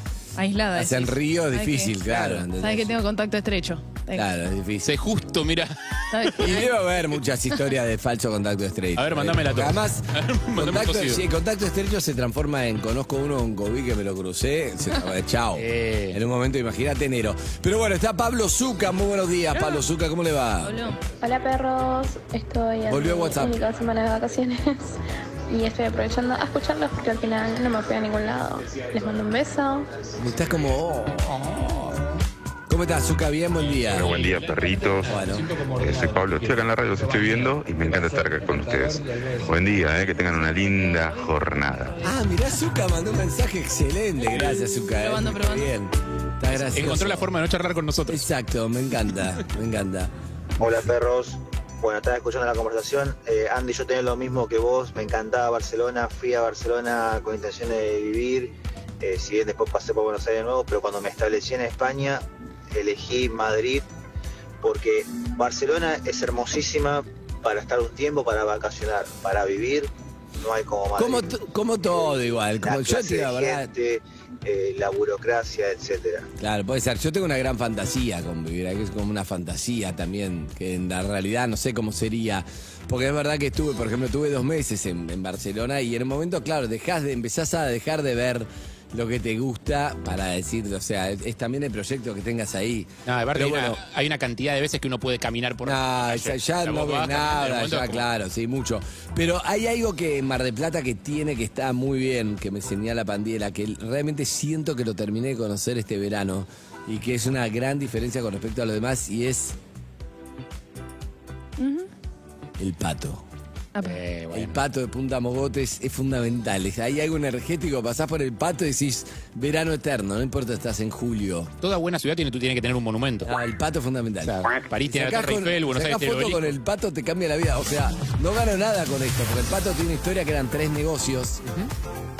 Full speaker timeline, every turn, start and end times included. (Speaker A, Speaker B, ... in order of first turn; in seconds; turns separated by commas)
Speaker A: 0.4-1.9, Speaker B: 0.7-3.0, Speaker C: 2.1-2.5, Speaker A: 2.6-4.2, Speaker B: 4.1-4.9, Speaker C: 4.8-6.5, Speaker A: 6.1-6.7, Speaker B: 6.4-20.8, Speaker C: 8.9-11.2, Speaker C: 15.5-16.2, Speaker A: 19.6-19.8, Speaker A: 20.6-21.0, Speaker D: 21.2-29.9, Speaker B: 22.9-23.6, Speaker B: 30.2-31.4, Speaker C: 31.3-32.2, Speaker B: 32.7-34.1, Speaker C: 33.6-39.0, Speaker E: 33.9-35.1, Speaker B: 35.0-35.5, Speaker E: 35.8-41.9, Speaker A: 40.2-42.2, Speaker B: 42.0-47.3, Speaker A: 44.8-45.7, Speaker C: 46.5-48.3, Speaker B: 48.1-50.1, Speaker F: 50.6-63.8, Speaker F: 64.6-69.9, Speaker F: 70.4-71.3, Speaker B: 70.9-73.7, Speaker F: 72.6-76.3, Speaker B: 76.4-93.8, Speaker C: 93.0-98.0, Speaker B: 95.6-109.6, Speaker A: 111.6-111.9, Speaker B: 112.6-113.2, Speaker A: 113.7-114.0, Speaker C: 113.8-114.6, Speaker B: 114.3-121.5, Speaker C: 121.6-123.3, Speaker B: 123.2-124.3, Speaker C: 124.2-126.5, Speaker B: 124.9-131.4, Speaker C: 131.4-131.7